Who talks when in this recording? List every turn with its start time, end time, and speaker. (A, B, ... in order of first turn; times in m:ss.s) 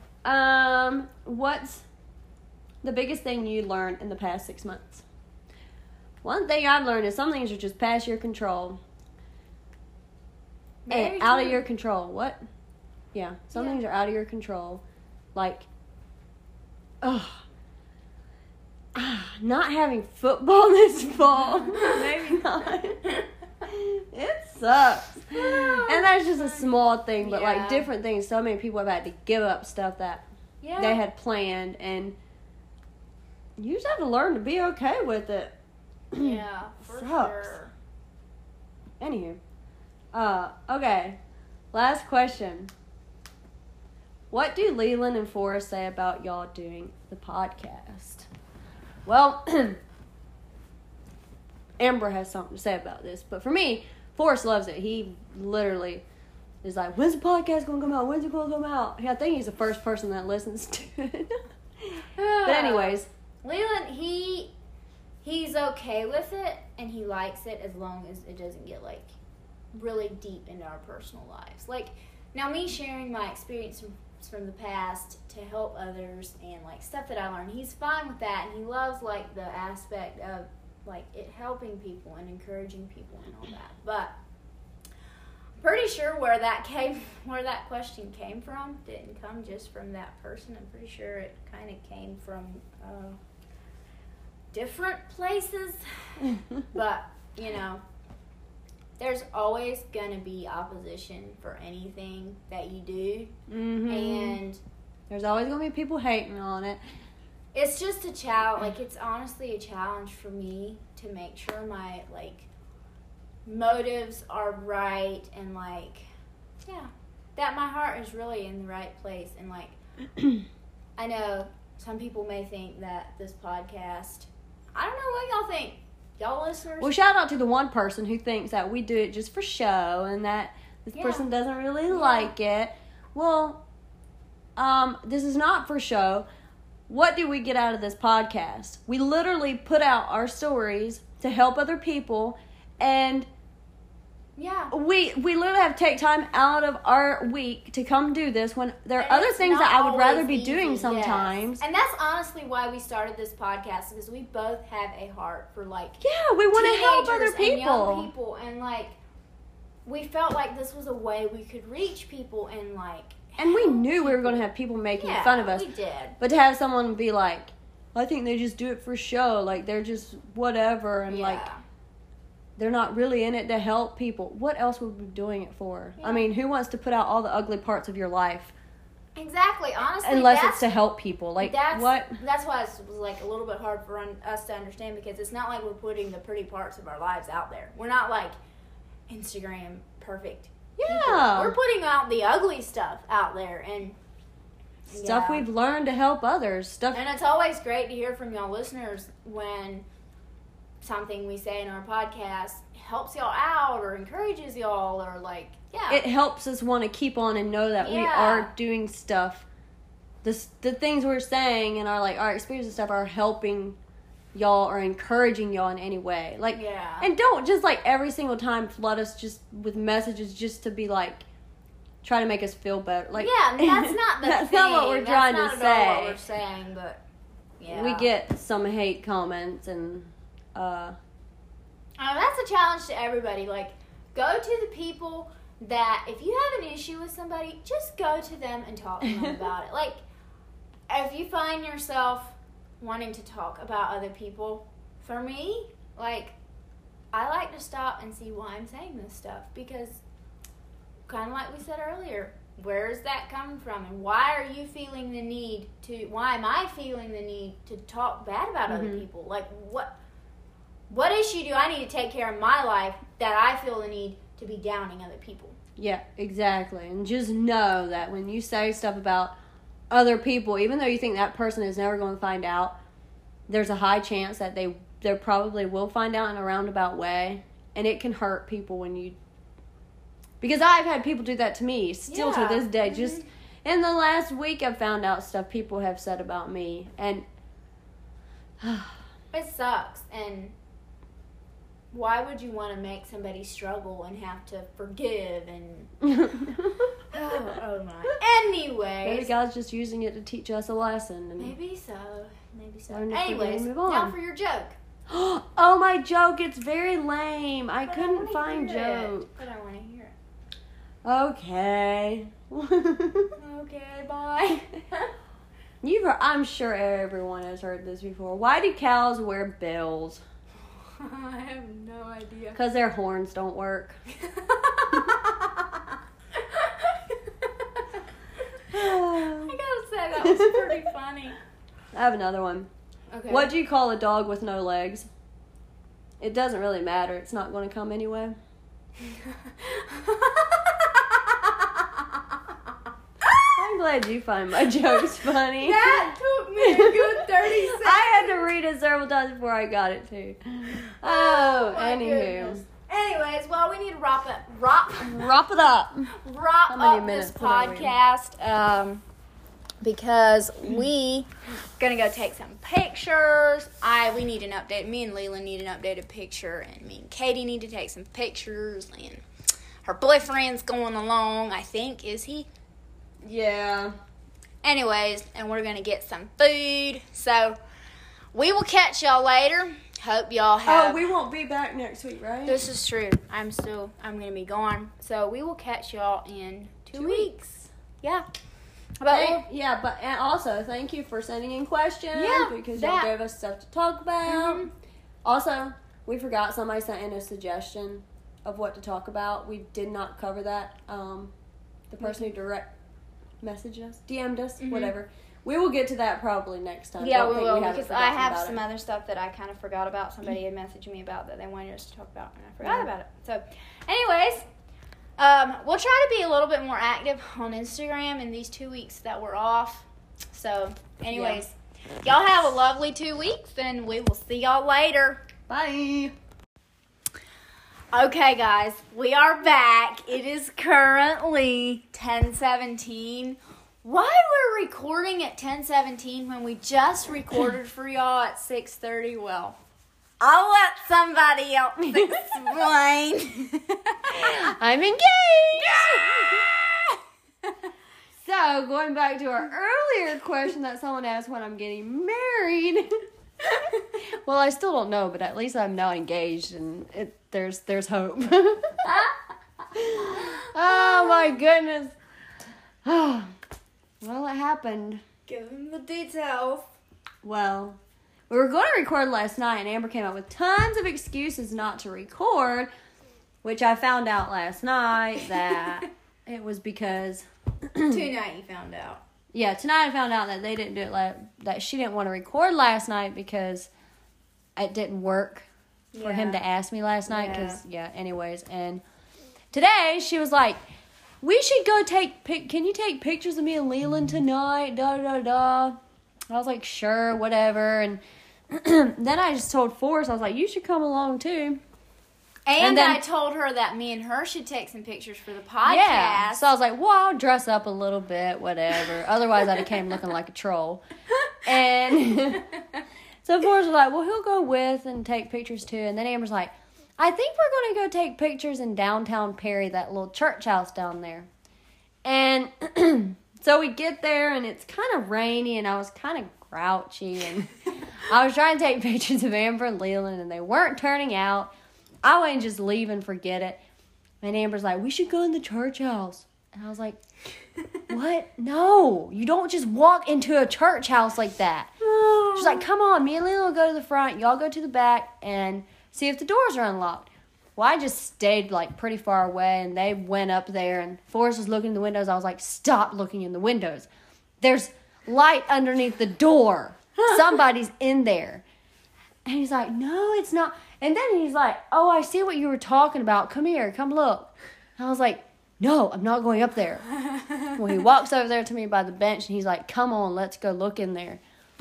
0:00.2-0:01.8 A
0:02.8-0:05.0 A
0:06.2-0:08.8 A
0:10.9-0:11.6 B
0:10.9-0:12.4 A
0:13.1-0:14.8 A
0:13.5-0:13.8 B
0:15.4-0:15.7 A
0:17.0-0:17.4 A
0:18.9-0:30.2 A
0:25.4-0:26.6 B
0:27.2-0:27.9 B
0:30.6-0:31.0 B
0:30.8-0:32.2 A
0:33.6-0:35.5 A
0:36.1-0:37.5 A
0:36.1-0:37.7 B
0:39.0-0:39.4 A
0:40.1-0:41.2 A
0:41.7-0:42.7 A
0:44.3-0:48.3 A
0:49.0-0:49.8 A
0:51.8-0:56.0 A
0:56.6-1:03.1 A
1:02.2-1:04.5 B
1:05.2-1:09.1 B
1:09.7-1:24.1 B
1:25.6-1:33.2 B
1:34.5-1:37.8 B
1:39.0-1:43.4 B
1:43.5-1:44.4 A
1:43.9-1:44.6 B
1:45.1-1:46.8 A
1:47.5-1:52.5 B
1:53.4-1:56.1 B
1:56.6-1:59.8 B
2:01.0-2:07.0 B
2:06.8-2:13.6 A
2:10.9-2:11.3 B
2:11.9-2:12.3 B
2:14.6-2:16.2 A
2:16.9-2:23.3 A
2:24.4-2:24.7 B
2:24.7-2:31.6 A
2:29.0-2:39.0 B
2:36.0-2:38.1 A
2:39.9-2:44.4 B
2:43.4-2:45.7 A
2:45.0-2:46.2 B
2:46.2-2:51.5 A
2:51.1-2:51.6 B
2:52.6-2:58.5 A
2:56.0-2:56.3 B
2:59.2-3:00.7 B
3:00.0-3:02.2 A
3:01.4-3:08.4 B
3:09.1-3:14.0 B
3:10.8-3:11.6 A
3:14.9-3:15.4 B
3:14.9-3:17.0 A
3:16.9-3:19.8 B
3:20.8-3:26.0 B
3:25.9-3:29.4 A
3:27.8-3:28.5 B
3:30.2-3:33.8 A
3:34.3-3:41.2 A
3:36.5-3:37.1 B
3:42.0-3:46.2 A
3:43.2-3:47.0 B
3:47.6-3:48.1 B
3:47.7-3:51.0 A
3:52.0-4:00.0 B
4:00.9-4:06.3 B
4:07.1-4:10.0 B
4:11.1-4:19.9 B
4:18.7-4:19.0 A
4:20.9-4:25.6 B
4:25.8-4:29.4 A
4:29.9-4:32.7 A
4:33.5-4:39.2 A
4:40.4-4:47.2 A
4:42.1-4:43.2 B
4:48.6-4:49.0 A
4:49.3-4:50.5 B
4:51.9-4:55.9 B
4:56.0-4:57.4 A
4:57.1-4:59.3 B
4:59.0-5:01.6 A
5:01.4-5:04.8 B
5:02.9-5:04.1 A
5:05.1-5:09.3 A
5:07.9-5:10.1 B
5:11.0-5:13.3 A
5:13.4-5:15.1 B
5:15.8-5:20.2 A
5:20.8-5:22.6 B
5:22.6-5:24.0 A
5:24.2-5:25.6 B
5:26.4-5:28.0 B
5:28.7-5:29.6 A
5:29.2-5:31.4 B
5:30.2-5:30.9 A
5:31.9-5:32.7 A
5:33.1-5:33.5 B
5:33.3-5:35.1 A
5:36.2-5:38.4 A
5:39.0-5:42.0 B
5:43.6-5:52.6 A
5:45.6-5:48.5 B
5:51.0-5:55.3 B
5:55.0-5:56.1 A
5:56.1-5:59.0 B
5:56.7-5:57.9 A
5:59.8-6:09.2 B
6:09.8-6:12.5 B
6:13.2-6:13.9 A
6:14.6-6:17.6 B
6:18.3-6:21.1 B
6:20.6-6:22.6 A
6:22.4-6:28.2 B
6:26.9-6:27.4 A
6:29.0-6:29.5 B
6:29.1-6:34.7 A
6:32.1-6:33.1 B
6:34.2-6:34.7 B
6:35.2-6:41.3 A
6:41.9-6:42.7 A
6:43.4-6:48.6 A
6:44.6-6:45.0 B
6:47.0-6:54.4 B
6:52.6-6:52.9 A
6:55.2-7:05.2 B
7:01.1-7:01.4 A
7:05.5-7:06.1 A
7:07.9-7:19.6 B
7:20.2-7:24.5 B
7:21.9-7:22.3 A
7:24.1-7:26.5 A
7:25.6-7:27.0 B
7:28.2-7:32.9 A
7:34.0-7:39.1 A
7:39.7-7:41.9 A
7:40.4-7:41.3 B
7:42.8-7:43.4 A
7:44.0-7:45.0 A
7:45.3-7:46.7 B
7:47.2-7:52.7 A
7:53.4-7:58.1 A
7:57.9-7:59.0 B
7:59.3-8:03.7 A
8:04.6-8:05.5 A
8:05.9-8:06.4 B
8:06.0-8:08.8 A
8:07.1-8:07.6 B
8:09.5-8:10.6 A
8:11.2-8:15.8 A
8:16.3-8:21.6 A
8:22.4-8:26.5 B
8:22.6-8:23.0 A
8:25.6-8:30.8 A
8:31.4-8:32.5 A
8:33.2-8:41.3 A
8:42.0-8:51.5 A
8:52.0-8:53.6 A
8:54.2-8:57.0 A
8:57.9-9:13.9 A
9:01.9-9:02.6 B
9:14.4-9:18.4 A
9:19.2-9:26.9 A
9:27.4-9:31.2 A